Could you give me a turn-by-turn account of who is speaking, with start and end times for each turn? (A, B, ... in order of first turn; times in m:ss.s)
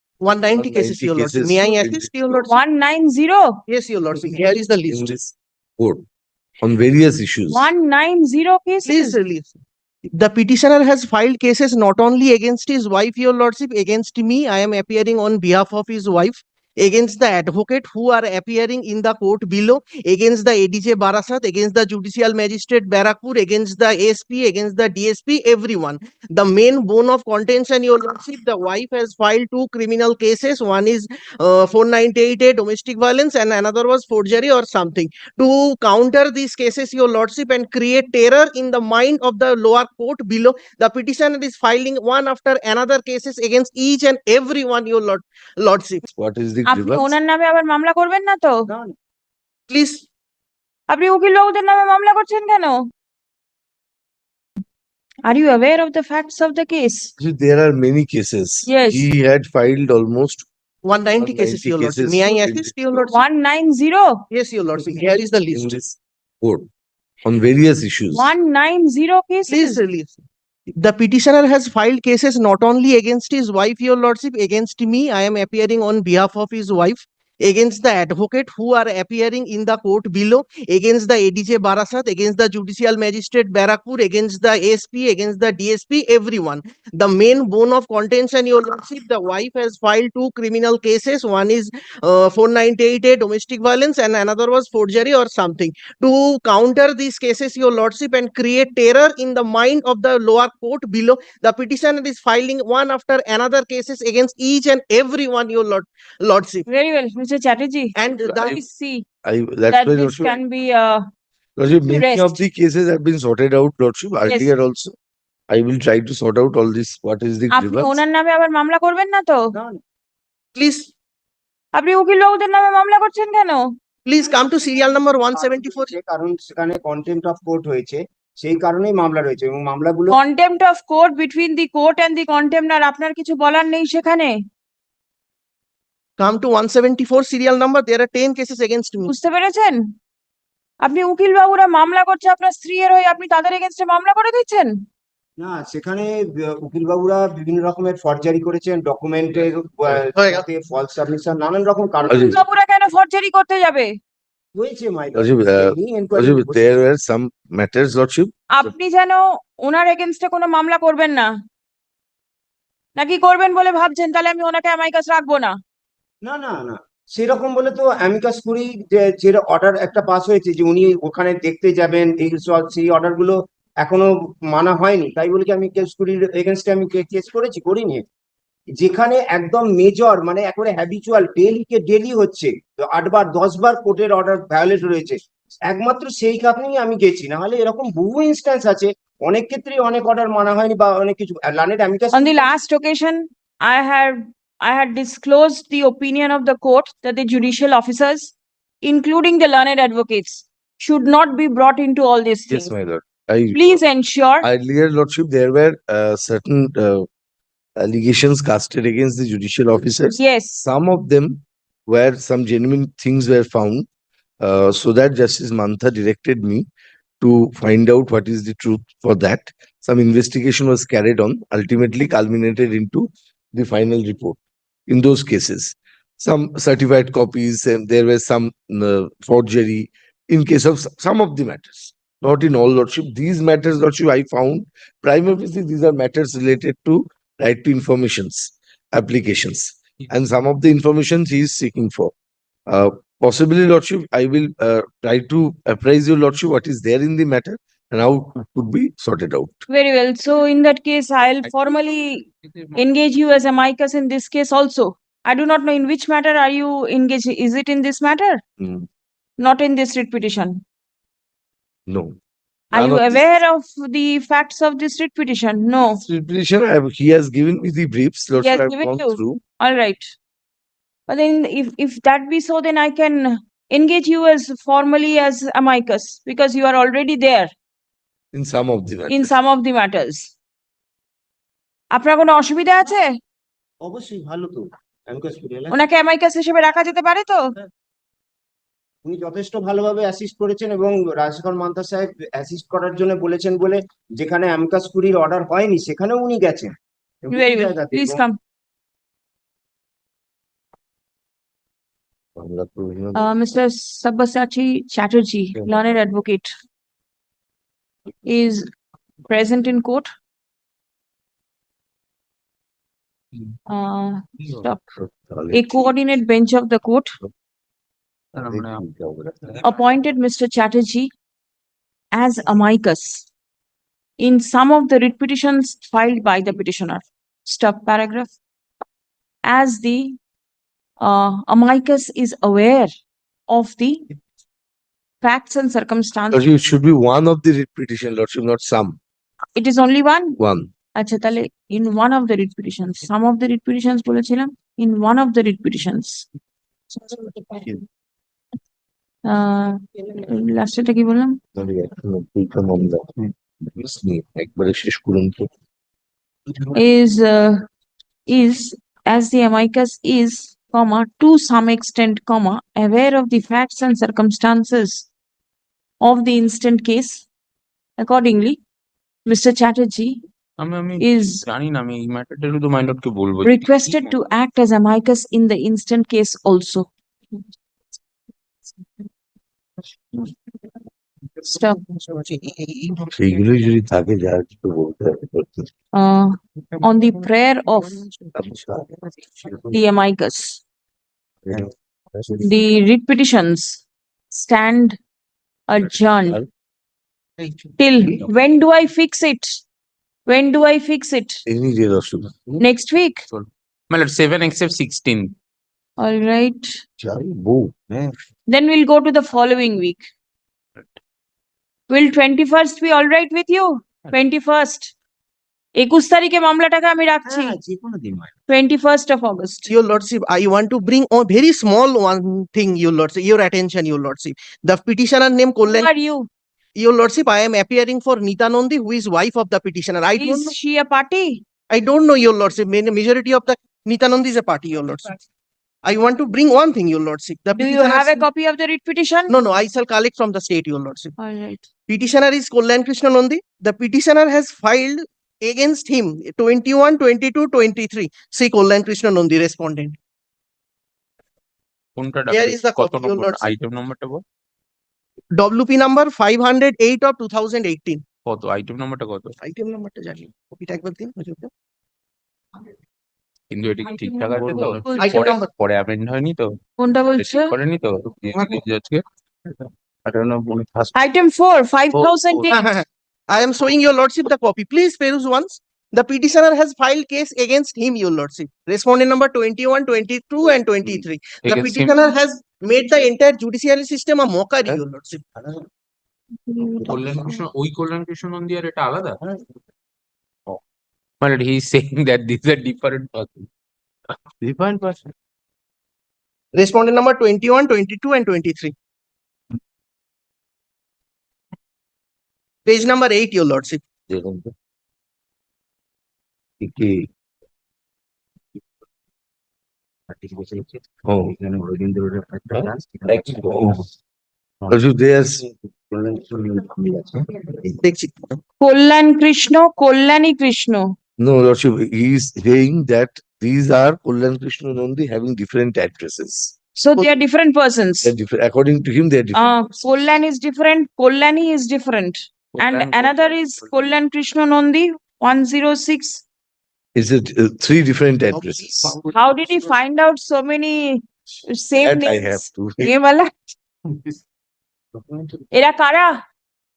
0:00.2-0:02.6 A
0:00.5-0:02.4 B
0:02.5-0:03.6 C
0:03.7-0:05.1 A
0:04.1-0:06.0 B
0:06.6-0:07.7 B
0:07.5-0:09.2 C
0:08.8-0:09.6 A
0:10.1-0:46.0 A
0:46.1-0:47.2 B
0:46.6-0:48.7 C
0:48.7-0:48.9 D
0:49.7-0:50.0 A
0:50.9-0:52.9 C
0:55.2-0:57.1 C
0:57.2-1:00.4 B
0:58.6-0:59.1 C
1:00.8-1:03.2 A
1:01.2-1:03.0 B
1:03.1-1:04.2 C
1:04.3-1:05.7 A
1:04.8-1:06.7 B
1:07.2-1:08.3 B
1:08.1-1:09.8 C
1:09.5-1:10.2 A
1:10.7-1:46.6 A
1:46.7-1:47.9 C
1:47.9-1:48.5 A
1:48.2-1:48.6 B
1:48.5-1:49.0 C
1:49.2-1:50.4 B
1:49.7-1:51.0 C
1:51.6-1:54.9 B
1:51.8-1:52.4 C
1:55.5-1:58.0 B
1:57.5-1:59.5 C
1:59.5-1:59.8 D
2:00.5-2:00.9 A
2:01.7-2:03.6 C
2:04.0-2:05.9 A
2:05.3-2:10.2 D
2:10.1-2:14.3 C
2:16.2-2:19.1 A
2:19.1-2:19.9 C
2:20.8-2:24.8 C
2:25.4-2:32.4 D
2:30.1-2:30.4 A
2:32.1-2:32.4 B
2:32.3-2:33.9 C
2:34.5-2:36.8 D
2:35.1-2:38.7 B
2:38.5-2:41.3 C
2:43.0-2:45.6 C
2:46.2-2:58.0 D
2:58.7-3:12.5 D
3:12.1-3:22.7 C
3:22.5-3:23.8 B
3:23.5-3:24.4 C
3:24.4-3:27.1 B
3:27.8-3:33.9 B
3:30.1-3:30.6 C
3:34.4-3:36.7 B
3:37.2-4:02.1 B
4:02.7-4:09.7 B
4:09.7-4:12.2 C
4:11.4-4:12.8 E
4:12.8-4:18.4 C
4:18.6-4:18.9 B
4:19.4-4:20.6 C
4:21.9-4:22.2 B
4:22.7-4:23.3 B
4:22.7-4:26.0 C
4:26.0-4:29.4 B
4:28.4-4:30.1 C
4:31.1-4:37.5 C
4:38.3-4:39.4 B
4:39.1-4:40.3 C
4:41.9-4:43.2 C
4:43.8-4:45.8 D
4:45.7-4:47.5 C
4:49.0-4:58.2 D
4:57.3-4:58.4 C
5:02.4-5:03.3 B
5:03.1-5:06.5 C
5:08.2-5:08.6 C
5:09.3-5:10.1 C
5:13.7-5:14.8 C
5:15.0-5:15.9 B
5:15.5-5:17.2 C
5:18.3-5:18.8 E
5:18.3-5:19.6 B
5:19.6-5:21.1 C
5:22.1-5:23.3 C
5:24.2-5:28.3 C
5:29.4-5:30.2 C
5:31.0-5:32.9 C
5:33.5-5:34.1 C
5:35.2-5:36.4 C
5:36.3-5:39.0 B
5:39.6-5:40.4 C
5:40.4-5:40.7 B
5:40.9-5:46.2 C
5:49.2-5:51.4 C
5:51.6-5:55.5 B
5:56.7-5:57.7 C
5:58.3-6:05.1 C
6:06.0-6:07.3 C
6:08.0-6:08.6 C
6:09.2-6:10.2 C
6:10.6-6:13.7 E
6:11.0-6:11.4 C
6:13.4-6:16.9 C
6:21.4-6:21.8 C
6:21.9-6:23.1 A
6:23.1-6:25.7 B
6:25.9-6:28.0 C
6:28.3-6:29.8 B
6:29.7-6:30.6 C
6:31.4-6:32.4 B
6:32.4-6:35.0 C
6:35.7-6:36.4 C
6:37.4-6:37.7 A
6:37.8-6:39.6 C
6:40.3-6:41.4 C
6:41.4-6:42.5 B
6:42.6-6:43.2 C
6:43.3-6:45.3 E
6:46.0-6:46.8 C
6:47.0-6:47.8 B
6:48.5-6:50.1 C
6:51.9-6:54.9 C
6:55.7-6:57.5 C
6:57.2-6:58.3 D
6:58.5-6:59.7 C
6:59.7-7:05.9 A
7:05.6-7:06.3 C
7:06.8-7:10.5 A
7:10.2-7:11.4 C
7:11.7-7:15.1 A
7:15.8-7:18.2 A
7:17.5-7:19.3 C
7:19.3-7:21.1 A
7:21.2-7:21.7 C
7:21.9-7:30.0 A
7:32.0-7:34.2 E
7:32.3-7:33.5 A
7:35.3-7:38.0 A
7:38.2-7:39.3 E
7:39.4-7:41.5 A
7:43.5-7:46.6 E
7:44.0-7:45.4 C
7:45.0-7:45.5 A
7:46.8-7:47.5 C
7:47.1-7:49.0 E
7:50.0-7:50.9 E
7:50.9-7:52.6 C
7:51.9-7:52.5 E
7:52.5-8:05.2 A
8:01.4-8:02.0 E
8:06.5-8:07.3 C
8:06.8-8:09.2 E
8:11.2-8:13.4 E
8:14.4-8:15.0 E
8:16.5-8:18.7 A
8:22.6-8:23.8 A
8:24.1-8:24.5 B
8:26.6-8:27.1 B
8:30.1-8:33.9 D
8:31.0-8:31.3 B
8:32.5-8:33.8 B
8:34.7-8:35.4 B
8:35.3-8:37.8 D
8:37.8-8:38.4 A
8:38.6-8:41.0 C
8:41.2-8:46.5 B
8:46.8-8:48.1 C
8:48.0-8:49.6 B
8:49.3-8:56.2 C
8:52.5-8:53.7 E
8:57.0-8:59.0 B
8:58.3-8:59.7 A
8:59.1-9:03.4 C
9:01.8-9:02.9 B
9:03.9-9:04.2 D
9:04.9-9:05.4 D
9:05.5-9:06.1 C